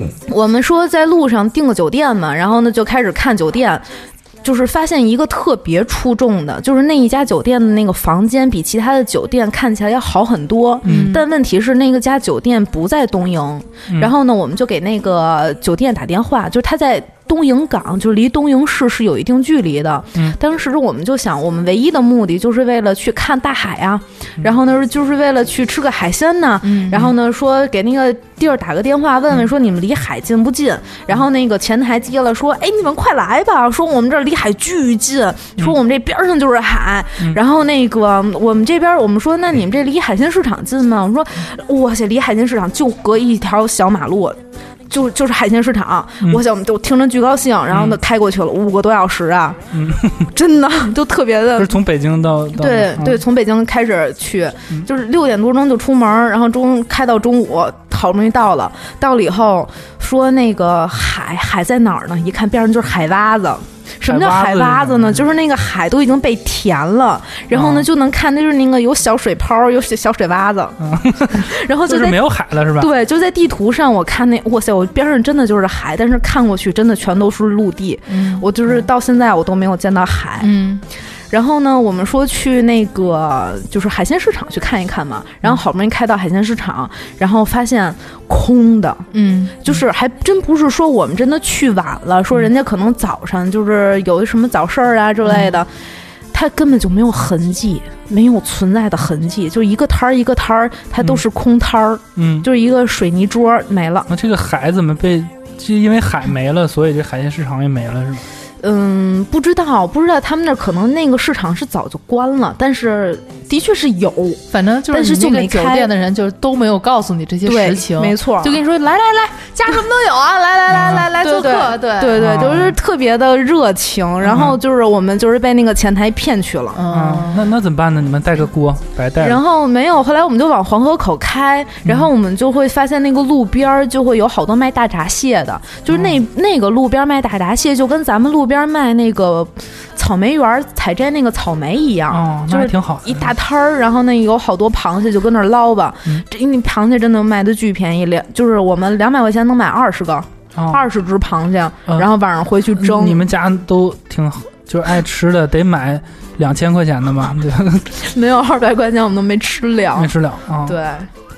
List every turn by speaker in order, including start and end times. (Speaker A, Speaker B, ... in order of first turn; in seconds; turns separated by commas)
Speaker A: 0.2-49.6, Speaker B: 10.8-11.2, Speaker C: 10.8-11.2, Speaker C: 26.6-27.1, Speaker B: 47.7-48.0, Speaker B: 49.7-50.3, Speaker A: 50.3-51.8, Speaker B: 51.5-53.2, Speaker A: 52.5-70.8, Speaker B: 64.0-65.3, Speaker B: 67.5-67.9, Speaker B: 70.8-72.9, Speaker A: 71.3-72.2, Speaker A: 72.8-80.7, Speaker C: 78.1-78.5, Speaker C: 80.4-80.8, Speaker A: 81.3-89.1, Speaker C: 89.1-89.7, Speaker A: 89.6-95.8, Speaker C: 95.3-95.5, Speaker A: 96.3-104.1, Speaker B: 102.2-102.5, Speaker B: 104.1-108.2, Speaker A: 108.6-115.9, Speaker C: 114.5-122.5, Speaker A: 117.4-118.6, Speaker B: 120.7-121.1, Speaker A: 120.7-126.8, Speaker B: 122.1-122.8, Speaker B: 124.2-124.6, Speaker C: 126.7-127.5, Speaker B: 126.9-129.4, Speaker A: 129.2-153.2, Speaker B: 131.8-132.1, Speaker B: 135.9-136.2, Speaker B: 142.1-143.3, Speaker B: 150.5-150.9, Speaker B: 152.7-157.9, Speaker A: 157.9-161.1, Speaker B: 159.9-160.8